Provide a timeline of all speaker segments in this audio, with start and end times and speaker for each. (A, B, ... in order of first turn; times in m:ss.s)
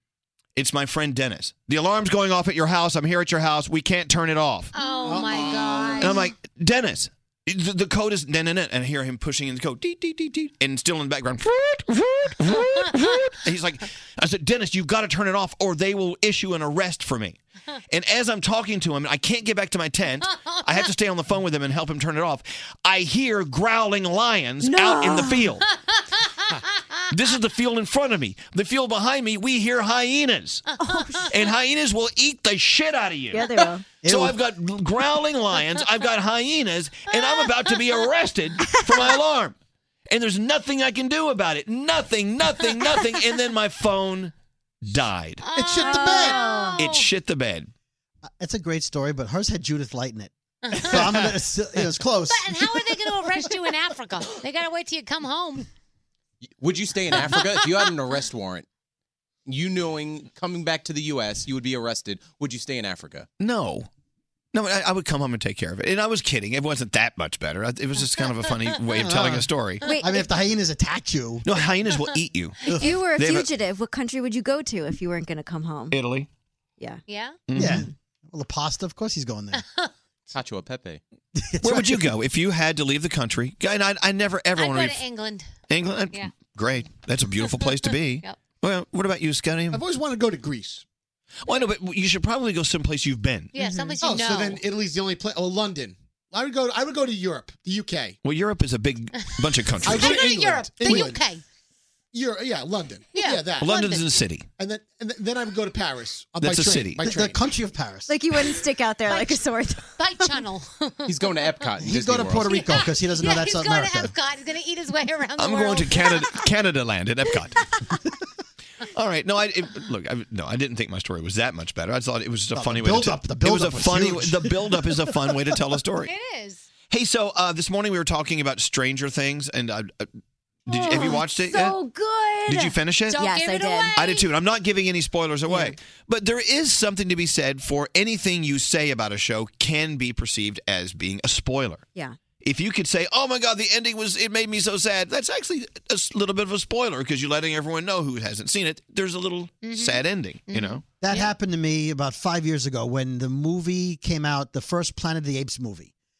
0:00.6-0:04.7 A
0:04.7-0:06.3 B
0:04.8-0:06.2 C
0:06.0-0:25.6 A
0:24.6-0:25.5 D
0:27.1-0:30.7 A
0:30.8-0:31.3 D
0:31.3-0:33.5 A
0:33.3-0:33.9 D
0:34.0-0:34.4 E
0:34.0-0:39.6 A
0:40.1-0:45.4 A
0:45.4-0:47.0 B
0:45.5-0:46.6 C
0:45.8-0:46.8 D
0:46.8-0:47.7 A
0:48.4-0:50.3 E
0:50.7-0:51.0 B
0:50.8-0:52.6 E
0:50.8-0:51.3 C
0:52.3-0:55.7 B
0:56.5-0:58.7 F
0:57.1-0:58.0 B
0:59.5-1:03.3 F
1:03.4-1:03.9 A
1:04.5-1:09.8 A
1:09.0-1:09.5 E
1:09.8-1:10.3 D
1:10.0-1:11.4 E
1:11.4-1:13.5 A
1:12.7-1:13.0 E
1:12.8-1:16.0 D
1:15.9-1:16.3 A
1:17.1-1:17.4 B
1:17.5-1:17.8 A
1:17.5-1:19.6 E
1:19.5-1:19.9 B
1:20.3-1:21.0 F
1:21.4-1:22.1 E
1:21.6-1:25.1 A
1:24.6-1:25.5 B
1:25.7-1:29.8 A
1:29.7-1:30.8 C
1:31.4-1:33.6 A
1:33.5-1:34.6 B
1:34.0-1:38.2 C
1:38.2-1:40.3 A
1:39.8-1:41.3 C
1:39.8-1:41.4 B
1:42.1-1:43.9 C
1:43.1-1:44.0 B
1:43.6-1:44.4 A
1:44.6-1:47.4 C
1:46.4-1:47.0 A
1:47.0-1:48.1 E
1:48.1-1:50.0 D
1:49.1-1:49.4 B
1:50.0-1:51.7 B
1:51.0-1:52.7 F
1:51.8-1:54.1 E
1:52.4-1:56.2 B
1:55.4-1:58.0 A
1:58.9-2:06.1 A
2:02.5-2:05.0 E
2:06.0-2:06.7 B
2:06.9-2:10.1 A
2:10.7-2:11.8 A
2:10.7-2:14.0 D
2:12.4-2:13.2 A
2:13.1-2:14.3 B
2:13.9-2:21.8 A
2:15.5-2:15.8 D
2:22.4-2:30.8 A
2:29.6-2:31.3 B
2:31.0-2:35.9 E